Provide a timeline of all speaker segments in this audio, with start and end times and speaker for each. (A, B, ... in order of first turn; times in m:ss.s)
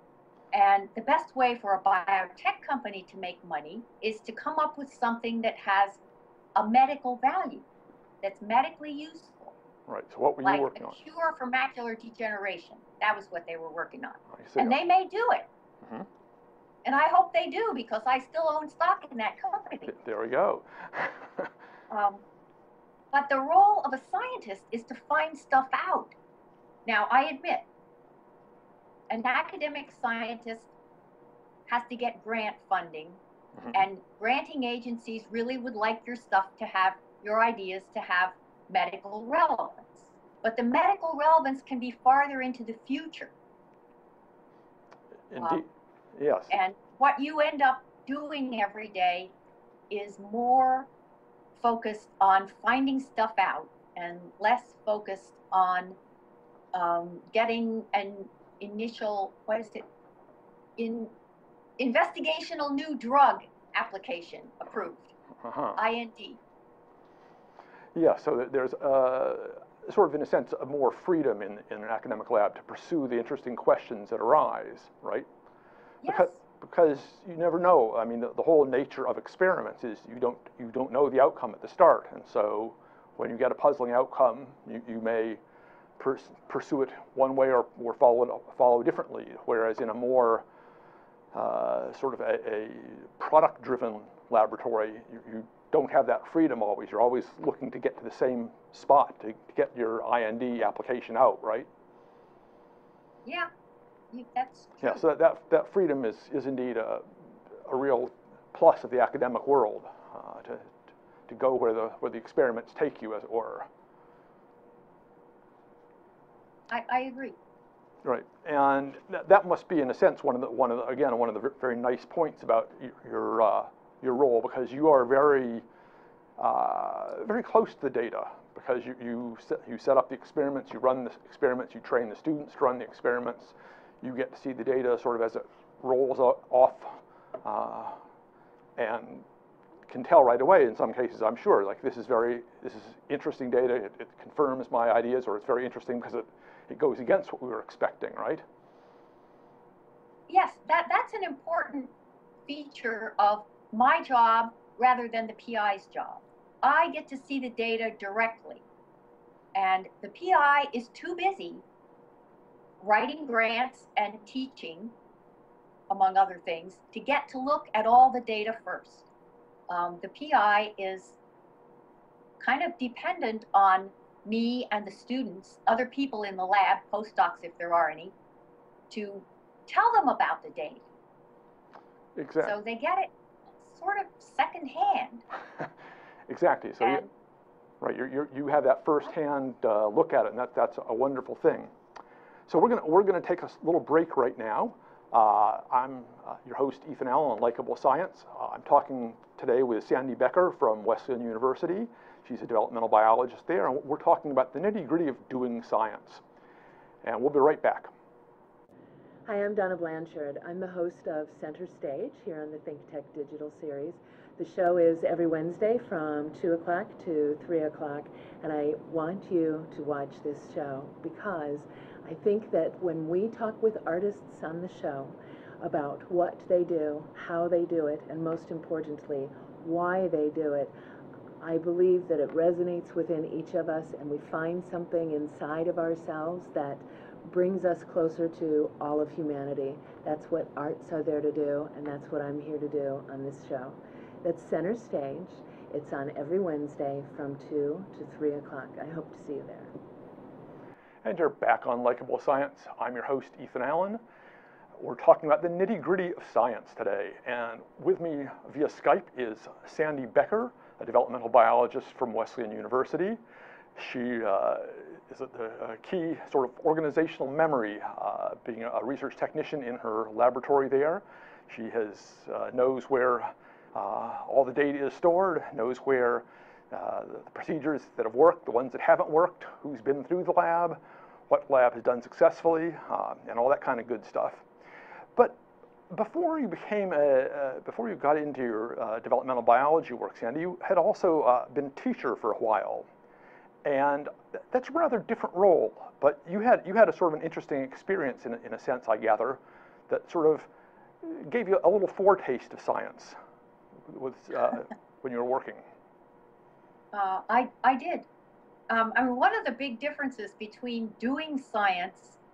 0:00.5-0:06.0 A
0:06.6-0:07.6 A
0:08.2-0:09.5 A
0:09.9-0:11.0 B
0:10.4-0:15.5 A
0:14.3-0:14.8 B
0:15.8-0:16.1 B
0:16.8-0:20.0 A
0:19.9-0:21.5 B
0:21.9-0:22.2 A
0:23.1-0:26.1 A
0:26.8-0:27.6 A
0:29.1-0:30.7 A
0:31.7-0:33.2 A
0:33.7-0:43.3 A
0:45.3-0:46.5 B
0:45.4-0:45.6 A
0:46.5-0:49.3 A
0:49.9-0:50.9 A
0:51.6-0:56.0 A
0:56.7-0:59.8 A
1:00.8-1:01.1 A
1:01.8-1:05.1 A
1:05.4-1:05.8 B
1:05.7-1:06.4 A
1:07.9-1:15.3 B
1:16.0-1:16.4 A
1:16.0-1:25.4 B
1:26.0-1:30.4 B
1:31.3-1:41.7 B
1:44.1-1:45.0 A
1:44.8-1:50.7 B
1:51.3-1:53.7 B
1:56.7-1:57.4 A
1:58.0-2:05.6 B
2:06.4-2:18.0 B
2:18.8-2:19.2 B
2:19.9-2:28.4 B
2:30.3-2:31.9 A
2:32.5-2:38.6 A
2:39.5-2:41.6 A
2:42.8-2:44.9 A
2:45.9-2:49.1 A
2:49.7-2:51.2 A
2:52.4-2:58.1 A
2:58.9-3:00.8 A
3:02.1-3:02.6 B
3:02.4-3:03.1 A
3:03.6-3:05.2 A
3:06.3-3:07.0 B
3:06.8-3:07.1 A
3:07.8-3:11.7 B
3:12.5-3:26.2 B
3:27.0-3:27.9 B
3:29.2-3:50.7 C
3:51.4-4:09.7 C
4:11.0-4:14.0 B
4:14.8-4:23.2 B
4:23.8-4:44.4 B
4:45.1-4:52.9 B
4:53.6-5:00.5 B
5:01.0-5:03.2 B
5:03.8-5:05.6 B
5:06.9-5:08.1 A
5:08.7-5:12.2 A